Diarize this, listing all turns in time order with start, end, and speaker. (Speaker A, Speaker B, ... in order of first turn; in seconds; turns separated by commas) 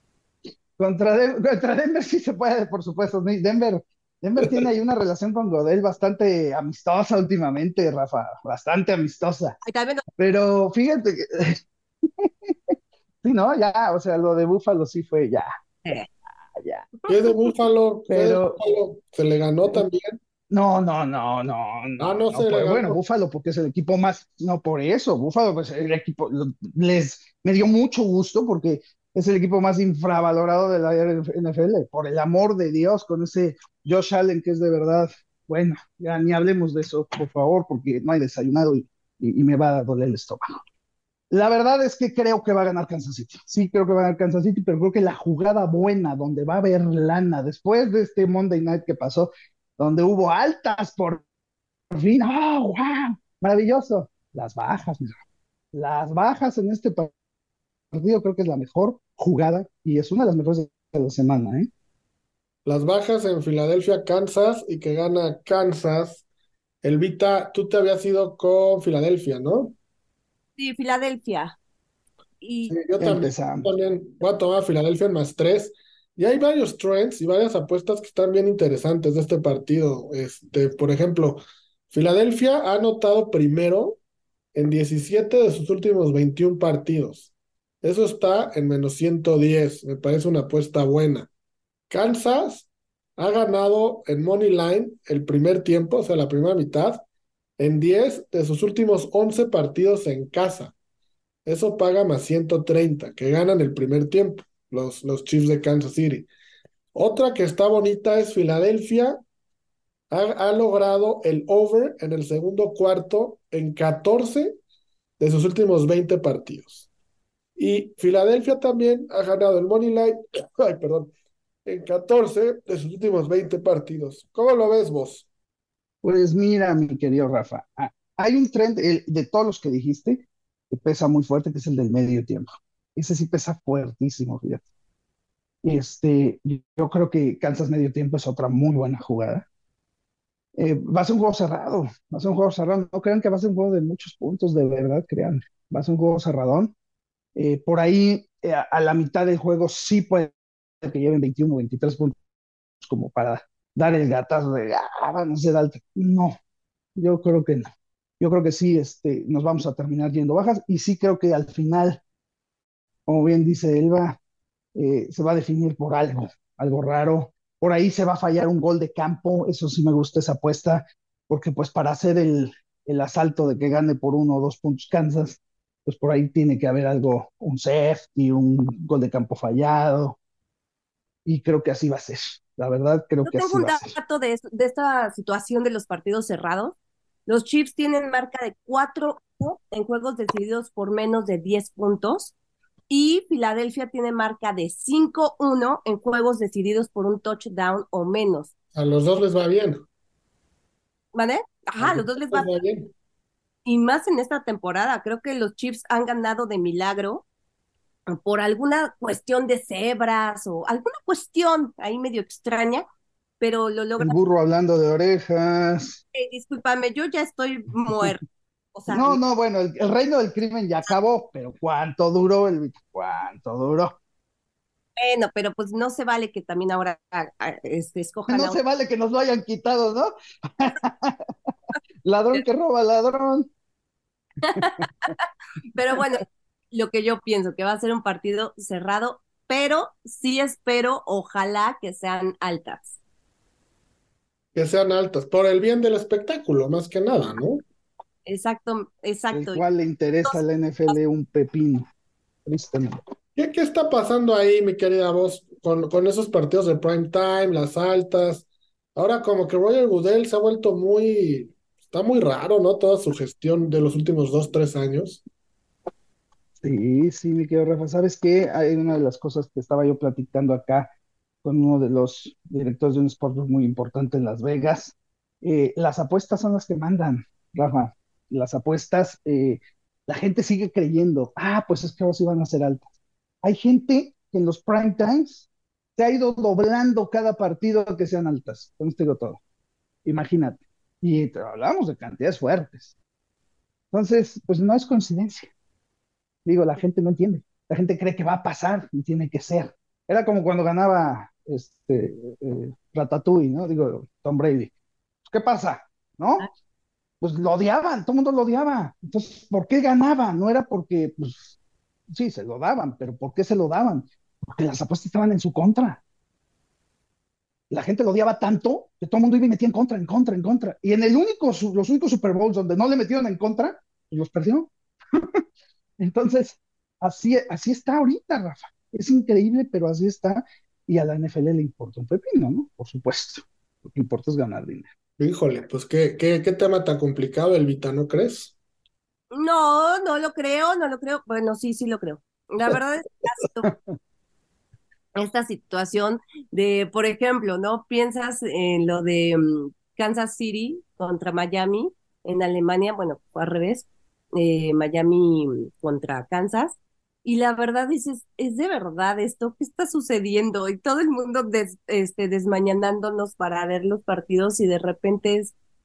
Speaker A: 0.8-9.6, Speaker B: 9.6-10.0, Speaker A: 10.2-11.6, Speaker A: 12.2-12.5, Speaker A: 13.2-15.5, Speaker A: 16.5-16.9, Speaker C: 17.1-20.2, Speaker A: 18.1-18.6, Speaker A: 20.5-40.6, Speaker C: 22.0-23.0, Speaker A: 41.3-51.2, Speaker A: 51.9-55.2, Speaker A: 55.7-57.1, Speaker A: 57.9-61.7, Speaker C: 62.6-66.2, Speaker C: 66.8-69.7, Speaker B: 70.6-71.6, Speaker B: 72.4-72.8, Speaker C: 72.7-84.0, Speaker A: 73.0-73.7, Speaker C: 84.5-87.3, Speaker C: 87.8-91.3, Speaker C: 91.9-97.0, Speaker C: 97.6-100.7, Speaker C: 101.4-106.3, Speaker C: 106.9-109.2, Speaker C: 110.1-114.6, Speaker C: 115.2-116.8, Speaker C: 117.6-121.1, Speaker C: 121.6-125.2, Speaker A: 126.0-134.6, Speaker A: 135.6-139.4, Speaker A: 140.6-146.7, Speaker A: 147.3-152.2, Speaker A: 152.8-156.4, Speaker A: 156.9-162.0, Speaker A: 163.1-164.2, Speaker A: 164.8-180.2, Speaker A: 181.2-183.9, Speaker B: 183.2-186.8, Speaker B: 187.3-192.3, Speaker B: 192.9-198.5, Speaker C: 198.7-199.8, Speaker B: 201.1-202.5, Speaker C: 201.8-202.9, Speaker B: 203.7-207.2, Speaker B: 208.1-212.8, Speaker B: 213.4-214.1, Speaker A: 214.0-216.0, Speaker B: 216.1-218.2, Speaker B: 218.7-219.2, Speaker A: 218.9-223.9, Speaker B: 225.0-228.6, Speaker A: 228.3-231.2, Speaker A: 232.0-233.5, Speaker B: 234.4-235.1, Speaker A: 234.6-234.8, Speaker B: 235.7-242.9, Speaker C: 244.5-247.6, Speaker B: 248.2-249.6, Speaker A: 249.3-251.9, Speaker A: 252.4-253.0, Speaker C: 253.3-265.2, Speaker A: 266.6-270.9, Speaker A: 271.4-282.9, Speaker A: 283.4-285.4, Speaker A: 286.0-289.4, Speaker A: 290.0-292.9, Speaker A: 293.9-295.5, Speaker A: 296.4-304.7, Speaker A: 305.3-306.5, Speaker A: 307.2-311.5, Speaker A: 312.1-316.0, Speaker A: 317.7-325.4, Speaker A: 326.0-334.9, Speaker C: 335.2-338.5, Speaker B: 339.3-343.7, Speaker B: 345.1-365.5